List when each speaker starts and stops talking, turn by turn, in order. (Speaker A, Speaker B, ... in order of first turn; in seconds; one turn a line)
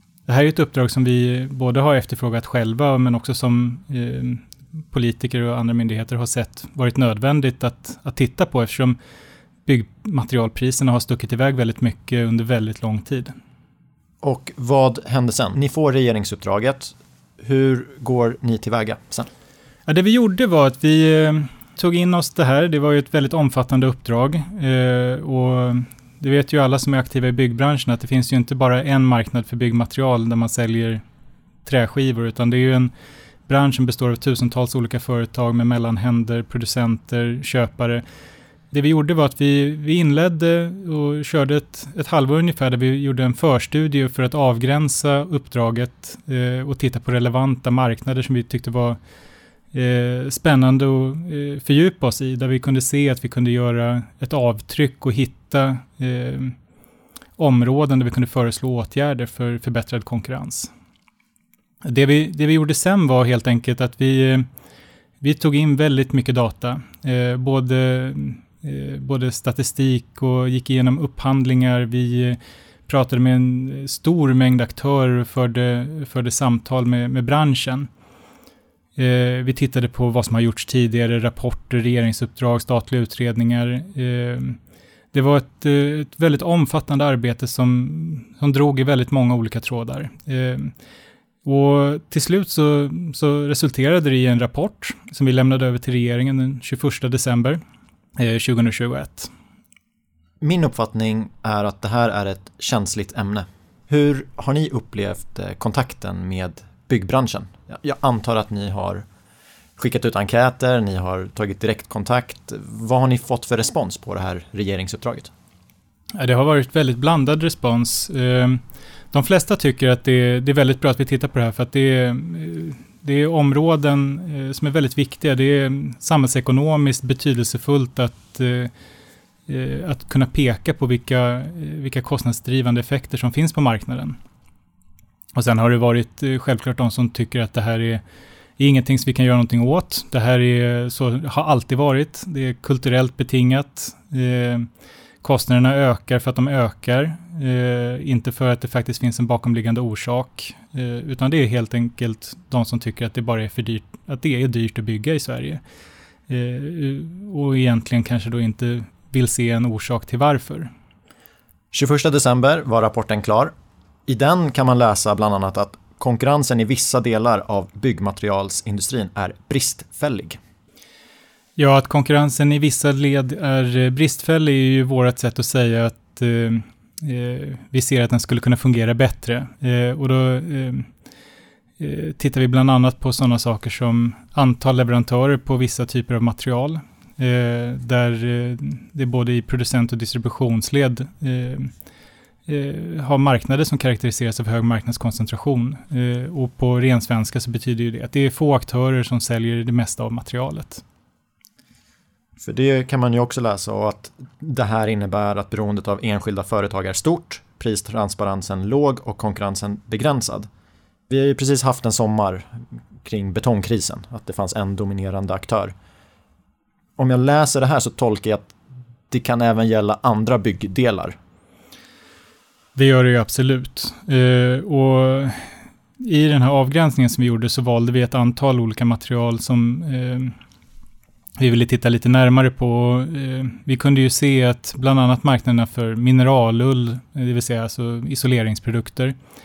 Speaker A: 0.3-9.0
Speaker A: 9.7-13.3
Speaker B: 14.2-19.3
Speaker A: 19.9-31.0
Speaker A: 31.6-32.9
Speaker A: 33.5-38.0
Speaker A: 38.7-49.0
Speaker A: 49.7-56.5
Speaker A: 57.4-60.7
Speaker A: 61.8-64.5
Speaker A: 65.2-77.9
Speaker A: 79.0-84.6
Speaker A: 85.1-90.7
Speaker A: 91.4-97.6
Speaker A: 98.2-99.3
Speaker B: 100.4-109.0
Speaker B: 109.8-115.3
Speaker A: 116.2-118.6
Speaker A: 119.1-128.7
Speaker A: 129.5-134.2
Speaker A: 135.3-138.0
Speaker A: 138.6-144.7
Speaker A: 145.2-155.6
Speaker A: 156.3-160.7
Speaker B: 161.7-163.5
Speaker B: 164.1-170.4
Speaker A: 171.6-180.9
Speaker A: 181.8-191.7
Speaker A: 192.5-200.8
Speaker B: 202.4-210.5
Speaker B: 211.1-212.5
Speaker B: 213.0-215.7
Speaker B: 217.0-218.6
Speaker B: 219.1-221.2
Speaker A: 222.7-230.3
Speaker A: 231.4-239.1